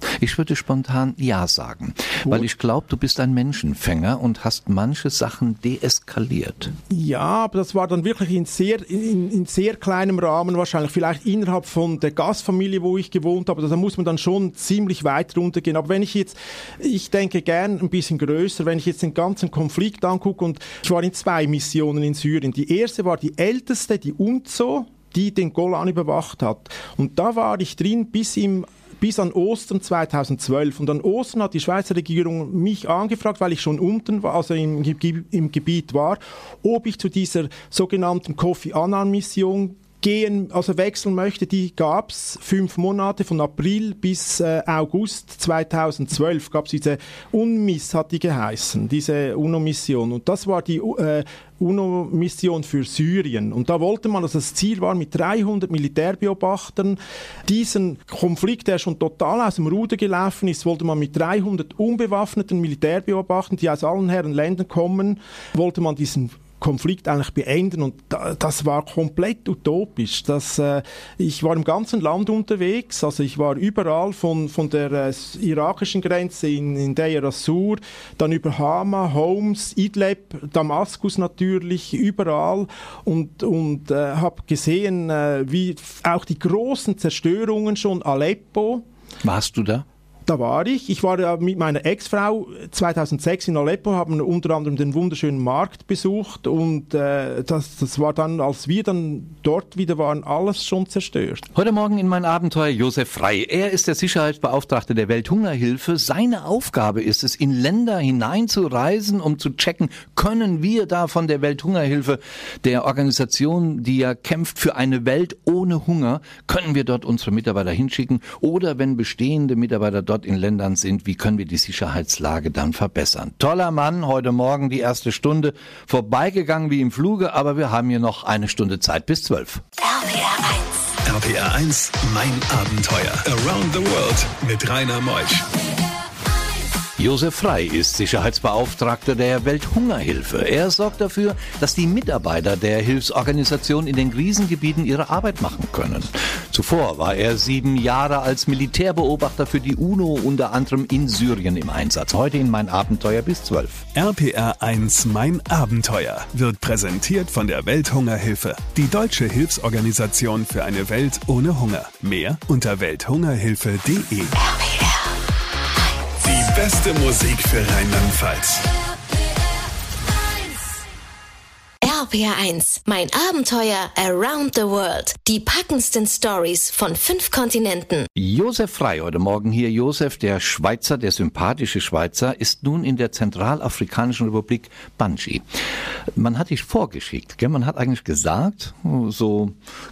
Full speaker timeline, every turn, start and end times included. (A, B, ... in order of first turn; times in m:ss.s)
0:00.2-0:06.7 A
0:06.9-1:28.8 B
1:29.2-1:29.8 A
1:30.3-1:41.4 B
1:41.5-2:09.6 A
2:09.8-2:10.8 C
2:11.0-2:15.5 D
2:17.0-2:33.8 A
2:33.9-2:44.3 D
2:44.4-2:45.1 C
2:46.2-2:48.7 D
2:51.8-2:58.1 C
2:58.2-3:05.4 A
3:06.2-3:09.5 A